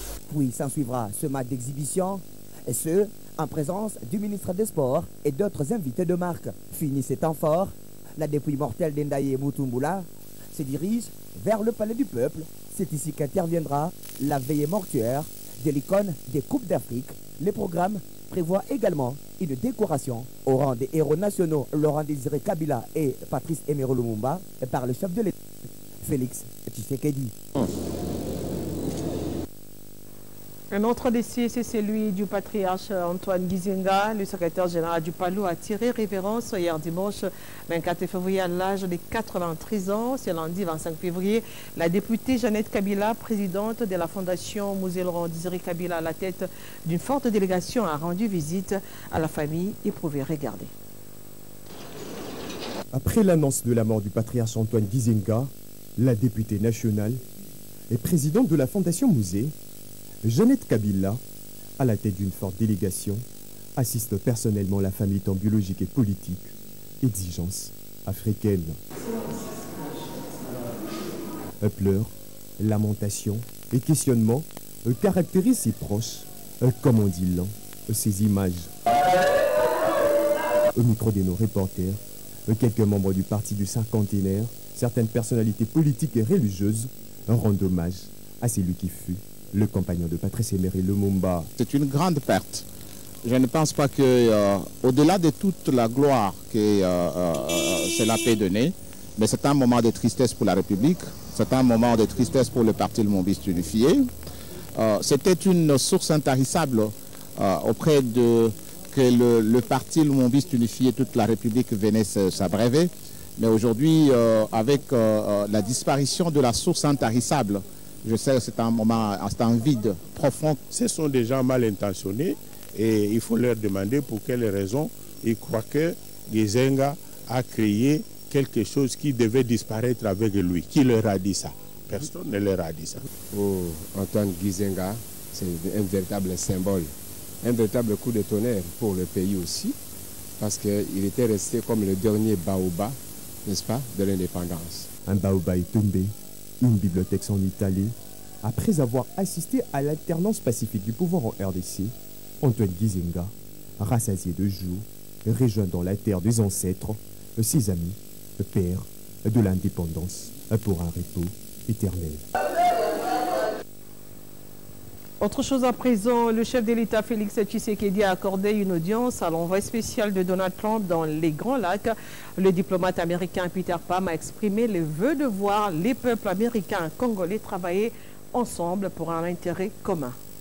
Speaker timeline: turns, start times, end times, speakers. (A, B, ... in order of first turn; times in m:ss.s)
0:00.3-0:25.3 A
0:26.0-0:27.3 A
0:30.7-0:50.7 B
0:52.9-0:57.2 C
0:57.9-0:59.5 C
1:00.2-1:01.2 C
1:01.8-1:03.2 C
1:03.8-1:08.8 C
1:11.6-1:18.7 C
1:20.7-1:31.5 C
1:31.6-1:32.6 D
1:33.2-1:44.0 D
1:44.8-2:00.6 D
2:00.7-2:13.0 E
2:13.3-2:19.8 F
2:20.4-2:24.9 F
2:25.1-2:42.2 C
2:45.2-3:00.2 B